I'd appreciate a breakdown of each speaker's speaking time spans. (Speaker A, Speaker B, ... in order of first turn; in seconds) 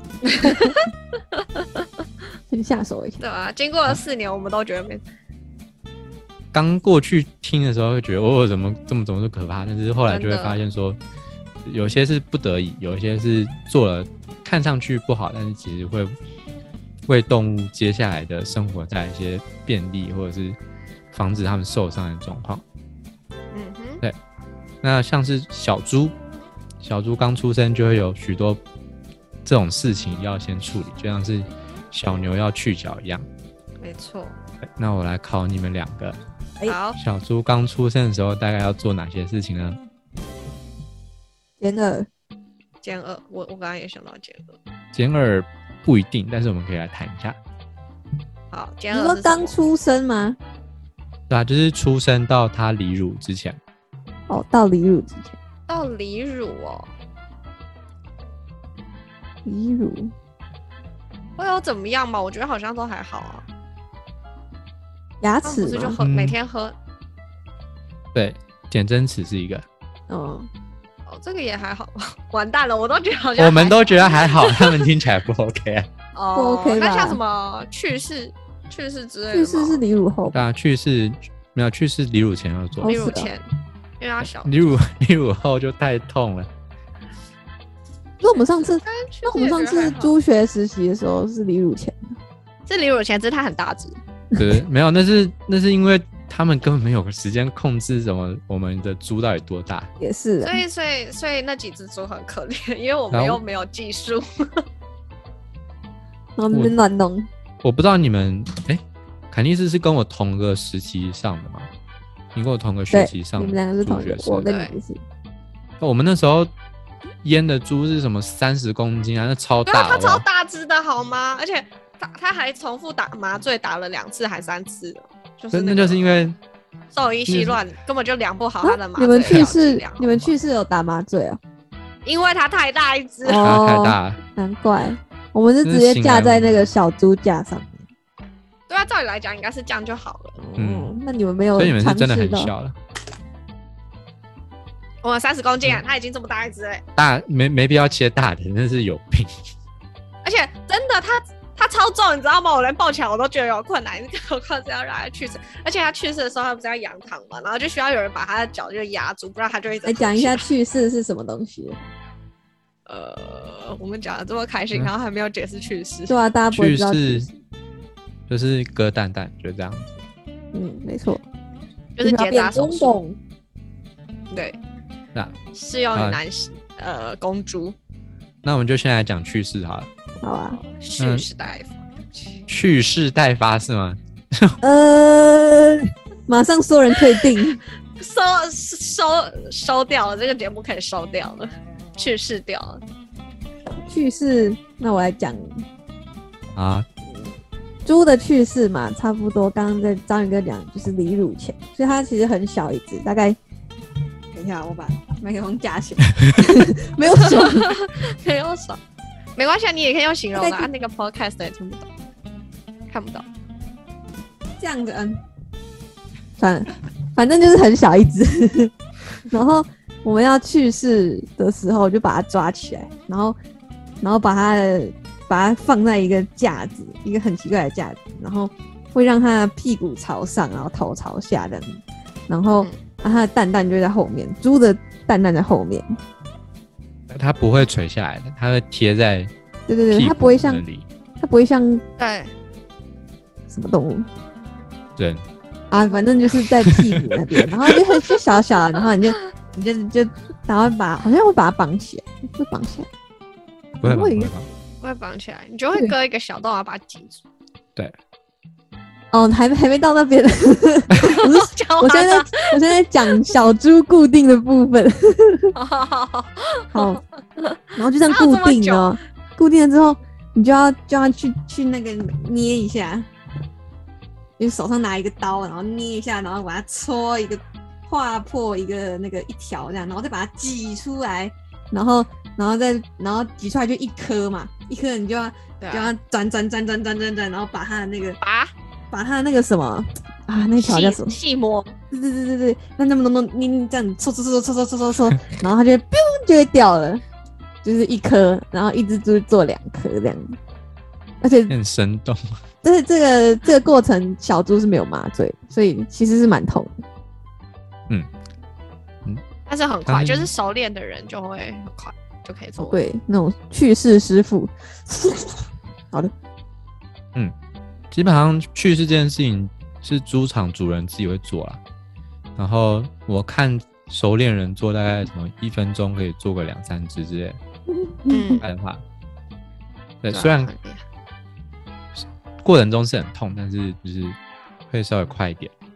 Speaker A: 0.2-1.9, 3.2-5.0, 10.1-10.6, 23.5-24.0, 33.8-34.4, 36.6-37.0, 42.8-44.6, 48.5-49.5, 55.7-56.9, 61.4-63.4, 65.4-66.8, 71.1-74.8, 76.1-79.8, 82.8-83.4, 84.0-84.5, 88.8-90.1, 92.7-94.0, 100.4-104.6, 114.5-114.7, 119.7-126.0, 126.9-130.3, 132.1-133.5, 138.7-140.4, 145.0-146.8, 150.2-160.5, 162.8-166.2, 172.0-172.9, 174.3-174.6, 175.5-177.8, 180.5-182.4, 188.0-192.8, 207.1-208.8, 209.3-211.9, 212.9-213.2, 242.0-242.3, 254.8-257.2, 261.0-262.6, 265.5-269.0, 285.6-285.9, 288.2-288.5, 290.6-291.7, 309.5-312.8, 328.1-328.4, 330.1-330.8
Speaker B: 2.5-3.2, 41.6-42.1, 48.9-50.4, 54.3-55.4, 59.4-60.1, 65.2-66.0, 70.1-70.5, 76.3-77.2, 79.3-80.4, 82.8-83.3, 88.2-92.2, 100.0-100.6, 106.4-107.3, 112.9-115.0, 128.6-131.4, 133.2-137.9, 140.4-142.5, 159.8-161.8, 166.1-167.3, 170.5-171.2, 172.0-173.2, 180.2-180.6, 184.6-187.6, 193.8-195.6, 197.8-203.4, 204.3-207.8, 210.3-210.7, 214.6-215.2, 216.4-218.7, 219.3-223.4, 224.0-236.0, 239.7-240.6, 241.2-241.8, 243.5-244.1, 245.7-252.9, 253.8-254.3, 259.1-265.5, 266.7-267.0, 267.8-273.1, 274.4-288.2, 288.9-291.2, 291.9-297.0, 297.6-300.4, 301.2-301.5, 302.6-306.8, 312.6-316.1, 327.7-328.4
Speaker C: 6.5-11.0, 11.7-16.1, 17.1-20.6, 21.1-22.6, 24.8-26.1, 26.8-28.6, 29.4-33.3, 34.8-36.2, 37.0-39.8, 44.9-47.4, 51.3-53.6, 66.0-66.4, 68.1-69.6, 73.4-75.9, 80.3-82.9, 84.2-86.5, 94.3-99.9, 103.1-103.4, 107.6-111.7, 112.3-114.5, 115.8-116.5, 117.2-120.2, 125.5-126.3, 127.3-127.6, 133.4-134.2, 135.6-136.7, 140.6-140.9, 141.6-142.7, 146.9-149.3, 166.5-167.3, 168.3-169.9, 175.9-176.2, 178.4-179.9, 181.0-181.2, 182.5-184.6, 196.6-196.8, 237.1-239.3, 239.9-240.8, 245.0-245.2, 246.6-247.8, 253.8-254.5, 301.5-302.3, 309.9-310.3, 317.9-321.6, 322.4-327.4, 328.4-328.8, 330.0-330.5, 331.9-334.2, 334.7-335.5